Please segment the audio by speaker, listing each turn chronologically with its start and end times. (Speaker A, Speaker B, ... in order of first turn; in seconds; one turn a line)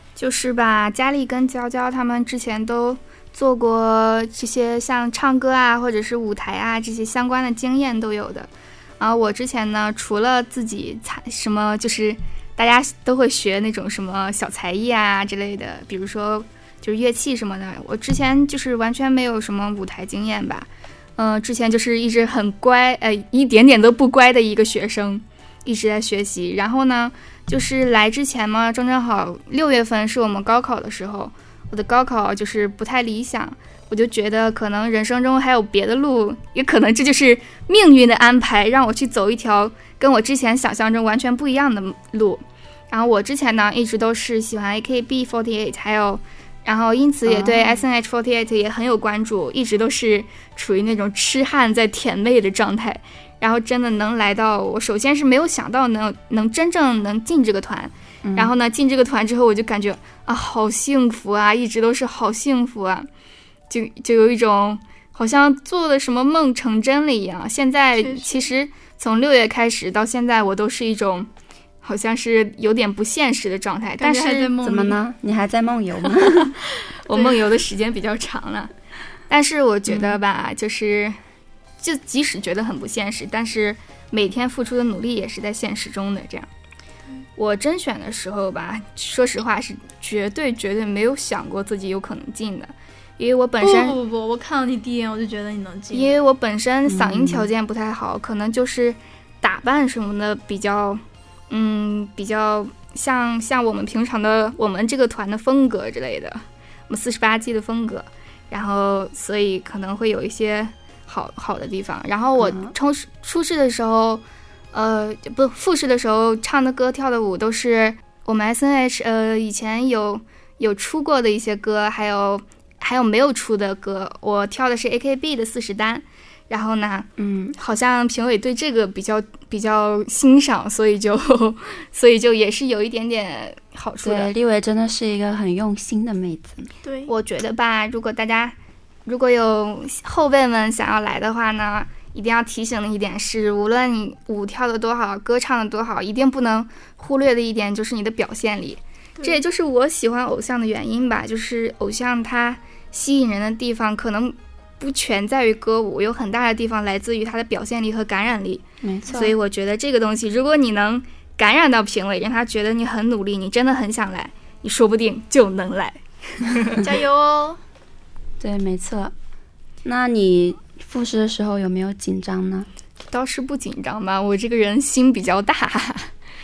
Speaker A: 0.1-63.1
Speaker B: 47.2-47.7
Speaker B: 58.2-58.5
Speaker A: 63.7-71.3
Speaker C: 68.0-68.5
Speaker A: 71.8-74.5
Speaker C: 74.0-75.0
Speaker B: 74.5-76.5
Speaker A: 76.6-78.7
Speaker A: 79.3-81.2
Speaker B: 79.9-80.2
Speaker A: 81.8-86.5
Speaker A: 87.4-94.0
Speaker C: 93.6-96.1
Speaker A: 95.9-134.3
Speaker B: 96.9-97.5
Speaker B: 112.4-112.7
Speaker B: 127.2-127.5
Speaker B: 134.0-136.7
Speaker C: 136.8-137.1
Speaker A: 137.1-166.8
Speaker B: 158.8-159.3
Speaker C: 166.8-167.6
Speaker B: 168.4-169.1
Speaker B: 169.8-172.7
Speaker A: 173.1-176.1